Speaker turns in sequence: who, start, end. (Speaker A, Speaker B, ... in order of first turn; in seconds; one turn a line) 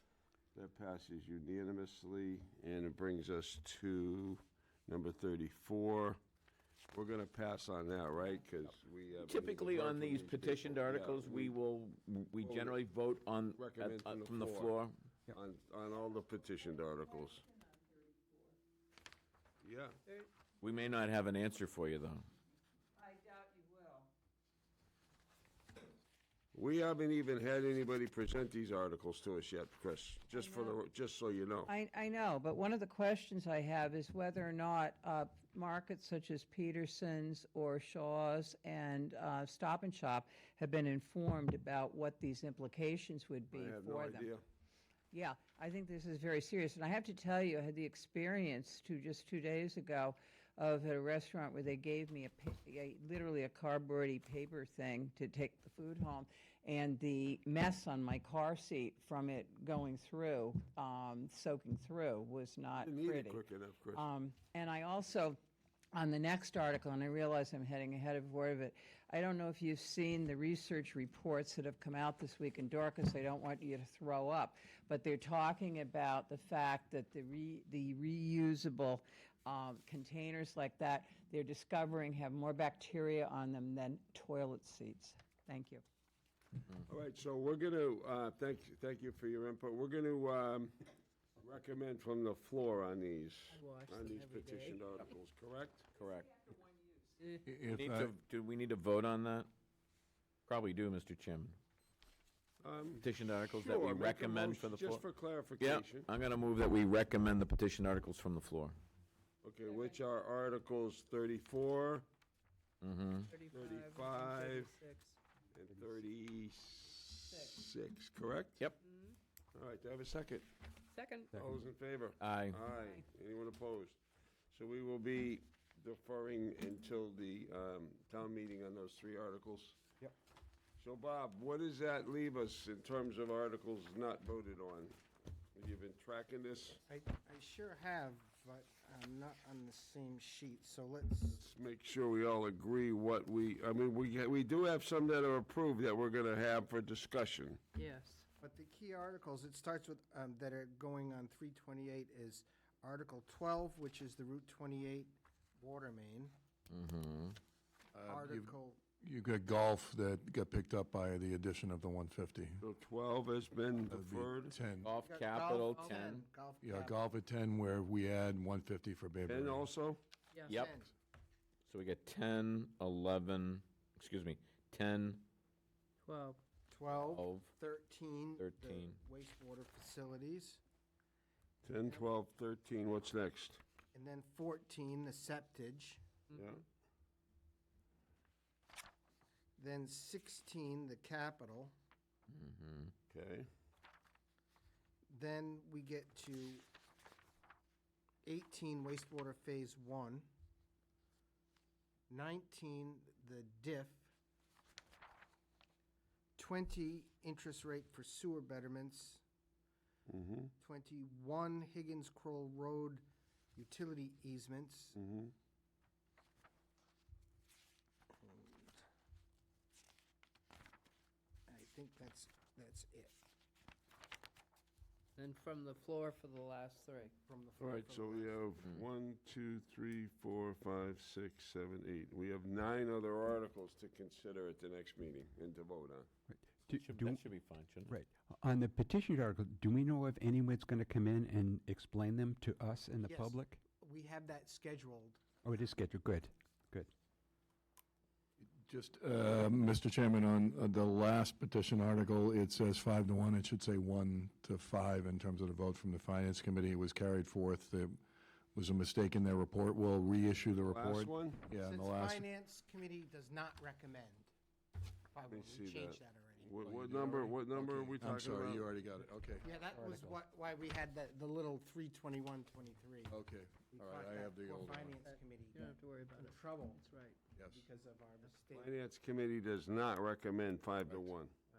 Speaker A: 0.5-6.2
Speaker A: 6.9-11.6
Speaker B: 9.2-14.9
Speaker A: 12.4-12.8
Speaker A: 13.6-14.8
Speaker A: 15.3-17.4
Speaker C: 17.6-18.4
Speaker A: 19.6-20.0
Speaker B: 20.6-22.2
Speaker C: 23.0-24.1
Speaker A: 26.5-31.7
Speaker C: 30.3-30.8
Speaker C: 31.7-44.3
Speaker A: 43.5-44.4
Speaker C: 45.1-65.4
Speaker A: 62.8-64.0
Speaker C: 65.9-85.8
Speaker A: 86.8-95.9
Speaker D: 93.5-94.8
Speaker B: 95.9-96.4
Speaker E: 97.4-98.1
Speaker B: 97.7-99.5
Speaker B: 100.5-101.6
Speaker A: 102.6-106.1
Speaker B: 103.0-105.0
Speaker B: 105.6-108.8
Speaker A: 109.4-112.0
Speaker B: 112.8-113.3
Speaker D: 113.3-115.2
Speaker A: 113.5-114.7
Speaker A: 115.5-118.6
Speaker D: 118.8-119.2
Speaker A: 119.5-120.5
Speaker D: 120.9-121.4
Speaker A: 121.3-124.0
Speaker B: 122.2-122.6
Speaker A: 124.5-129.8
Speaker A: 130.8-135.0
Speaker A: 135.5-136.8
Speaker F: 136.9-141.4
Speaker A: 141.3-147.6
Speaker D: 147.7-148.2
Speaker F: 148.4-156.3
Speaker B: 156.7-157.4
Speaker E: 157.9-162.6
Speaker F: 158.1-158.8
Speaker A: 162.6-164.6
Speaker E: 163.9-164.9
Speaker B: 164.8-166.2
Speaker F: 165.0-167.0
Speaker E: 166.6-169.7
Speaker A: 169.3-170.0
Speaker D: 170.3-170.6
Speaker F: 170.4-170.9
Speaker B: 171.7-175.2
Speaker D: 176.0-176.4
Speaker F: 176.7-180.6
Speaker B: 177.1-177.5
Speaker B: 178.4-179.0
Speaker A: 181.6-183.6
Speaker F: 183.9-186.0
Speaker A: 186.3-186.6
Speaker F: 189.6-191.7
Speaker B: 192.3-192.9
Speaker A: 193.1-193.5
Speaker F: 195.1-196.6
Speaker F: 198.2-200.3
Speaker F: 202.1-204.1
Speaker F: 206.4-209.2
Speaker A: 210.1-210.5
Speaker F: 210.6-214.9
Speaker A: 214.9-215.3
Speaker F: 218.2-218.8
Speaker F: 221.5-223.1
Speaker D: 225.2-227.1
Speaker F: 227.3-228.4
Speaker A: 227.6-236.1
Speaker G: 236.7-237.1
Speaker B: 236.8-237.9
Speaker G: 237.9-243.5
Speaker F: 243.0-245.2
Speaker G: 245.4-246.9
Speaker E: 248.6-257.9
Speaker E: 258.5-262.2
Speaker A: 260.7-261.4
Speaker F: 261.6-264.3
Speaker F: 265.1-266.5
Speaker A: 265.3-268.7
Speaker E: 266.6-269.5
Speaker F: 268.0-268.7
Speaker F: 269.4-273.1
Speaker E: 273.1-275.0
Speaker F: 273.7-276.8
Speaker D: 275.1-277.2
Speaker E: 277.4-277.6
Speaker F: 277.4-278.7
Speaker A: 278.5-281.3